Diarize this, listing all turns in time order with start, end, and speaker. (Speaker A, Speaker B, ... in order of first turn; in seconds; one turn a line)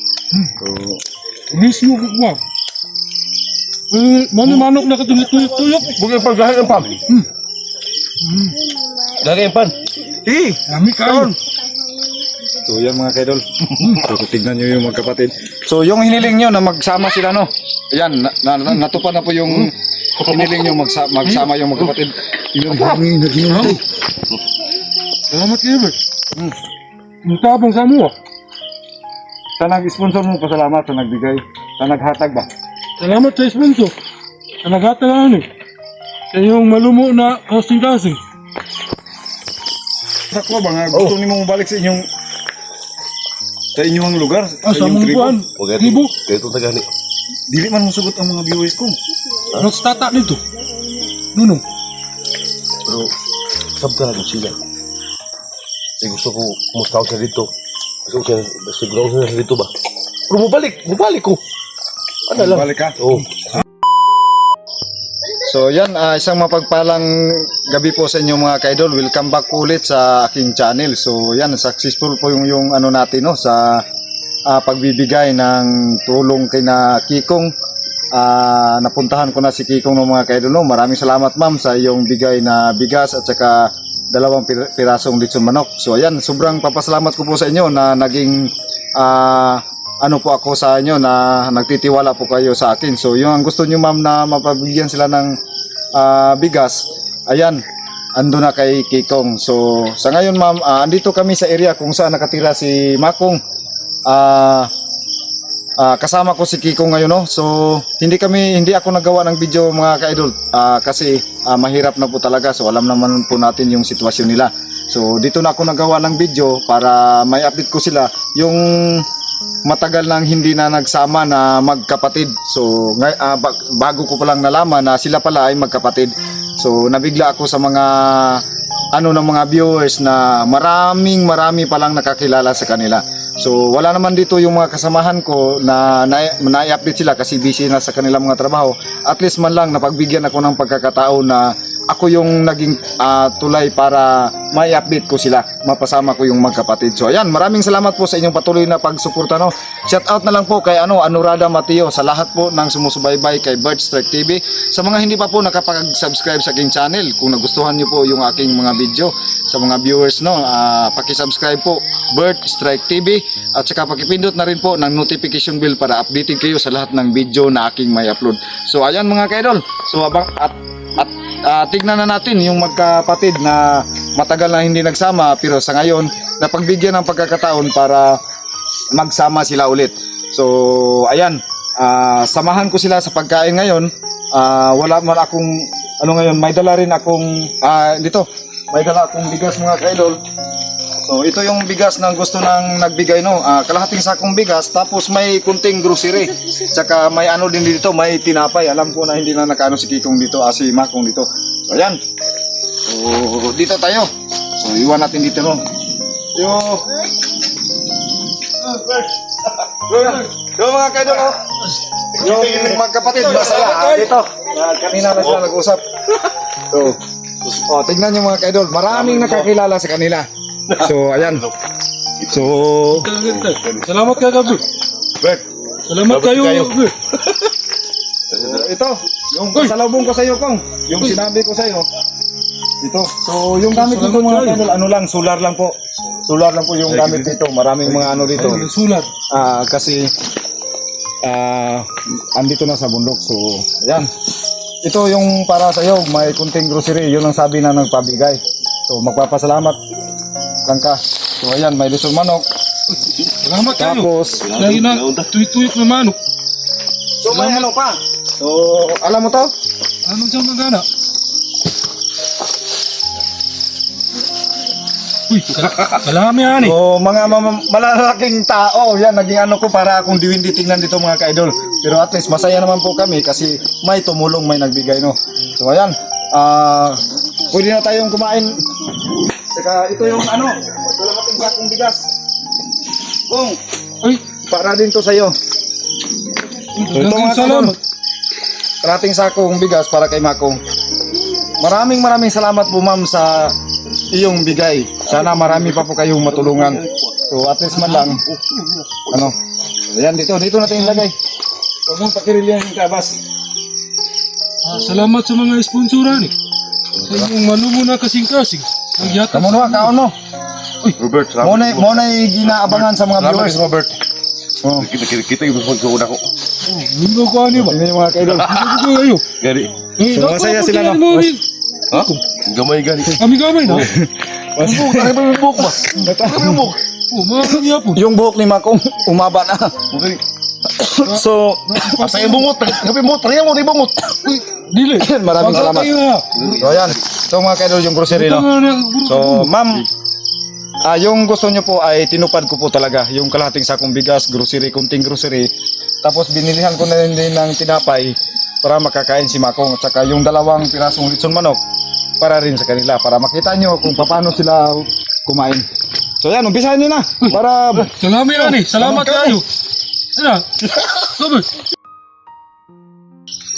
Speaker A: 0.6-1.0
Speaker B: 1.5-2.4
Speaker B: 3.9-6.0
Speaker C: 5.9-7.0
Speaker B: 8.2-8.6
Speaker C: 9.2-10.4
Speaker A: 10.2-10.5
Speaker B: 10.7-11.3
Speaker A: 12.6-23.8
Speaker B: 23.5-23.8
Speaker B: 25.3-25.9
Speaker B: 27.2-28.1
Speaker A: 29.6-32.5
Speaker B: 33.0-33.9
Speaker B: 34.6-35.5
Speaker B: 36.3-38.2
Speaker A: 40.3-42.0
Speaker A: 43.7-45.4
Speaker B: 44.6-46.1
Speaker C: 45.5-46.9
Speaker A: 47.5-49.0
Speaker B: 49.5-50.4
Speaker B: 51.3-51.6
Speaker C: 52.9-53.1
Speaker C: 53.8-54.6
Speaker C: 56.0-57.5
Speaker C: 58.0-59.7
Speaker C: 60.3-61.4
Speaker C: 62.3-63.4
Speaker A: 62.3-63.0
Speaker A: 65.4-73.8
Speaker A: 74.5-77.5
Speaker A: 78.1-95.3
Speaker A: 96.0-97.6
Speaker A: 98.2-103.4
Speaker A: 104.1-104.7
Speaker A: 105.8-119.0
Speaker A: 119.7-128.4
Speaker A: 128.9-178.2
Speaker A: 178.9-190.2
Speaker A: 191.0-202.0
Speaker A: 202.8-205.6
Speaker A: 206.3-207.0
Speaker A: 209.8-211.5
Speaker A: 212.1-215.8
Speaker C: 212.3-212.8
Speaker B: 213.1-214.1
Speaker A: 216.6-221.5
Speaker C: 218.9-219.5
Speaker C: 220.7-221.5
Speaker A: 222.2-223.1
Speaker B: 222.9-224.6
Speaker C: 223.2-223.9
Speaker C: 225.2-225.5
Speaker B: 225.9-226.9
Speaker C: 226.0-226.7
Speaker C: 228.3-228.7
Speaker A: 228.3-231.9
Speaker A: 232.8-238.7
Speaker B: 233.7-234.6
Speaker C: 236.9-238.6
Speaker B: 238.3-239.1
Speaker A: 239.3-240.1
Speaker A: 241.2-244.1
Speaker A: 244.8-249.8
Speaker A: 250.7-252.4
Speaker B: 253.4-256.2
Speaker A: 253.7-254.5
Speaker C: 254.4-255.3
Speaker A: 257.2-259.5
Speaker B: 257.3-257.7
Speaker B: 260.1-260.9
Speaker B: 265.3-266.8
Speaker A: 266.5-282.1
Speaker A: 283.3-283.6
Speaker A: 284.4-285.3
Speaker B: 286.7-287.8
Speaker A: 286.9-287.7
Speaker A: 288.8-290.6
Speaker A: 291.4-293.5
Speaker A: 294.1-298.2
Speaker C: 295.1-297.1
Speaker C: 297.7-299.3
Speaker A: 299.9-301.1
Speaker A: 301.9-303.1
Speaker B: 304.6-306.3
Speaker B: 307.0-309.9
Speaker A: 309.3-310.1
Speaker C: 310.8-314.0
Speaker A: 311.4-313.6
Speaker A: 314.6-314.9
Speaker C: 314.7-316.2
Speaker B: 316.6-317.8
Speaker A: 317.6-318.6
Speaker C: 318.2-318.9
Speaker B: 318.4-319.2
Speaker C: 319.4-319.8
Speaker B: 320.0-321.4
Speaker A: 320.1-321.3
Speaker C: 321.9-323.9
Speaker B: 323.2-323.9
Speaker A: 323.8-325.2
Speaker C: 324.6-326.8
Speaker A: 325.7-326.7
Speaker B: 327.1-328.0
Speaker A: 327.9-329.9
Speaker C: 329.9-330.2
Speaker A: 330.7-331.9
Speaker B: 331.0-332.5
Speaker C: 331.9-334.3
Speaker B: 334.2-336.6
Speaker A: 334.9-335.9
Speaker C: 336.3-337.0
Speaker A: 336.6-338.4
Speaker B: 338.1-339.5
Speaker A: 339.0-339.9
Speaker A: 340.8-345.5
Speaker A: 346.0-351.6
Speaker A: 352.2-355.6
Speaker A: 356.2-359.4
Speaker B: 357.9-359.4
Speaker B: 360.1-361.5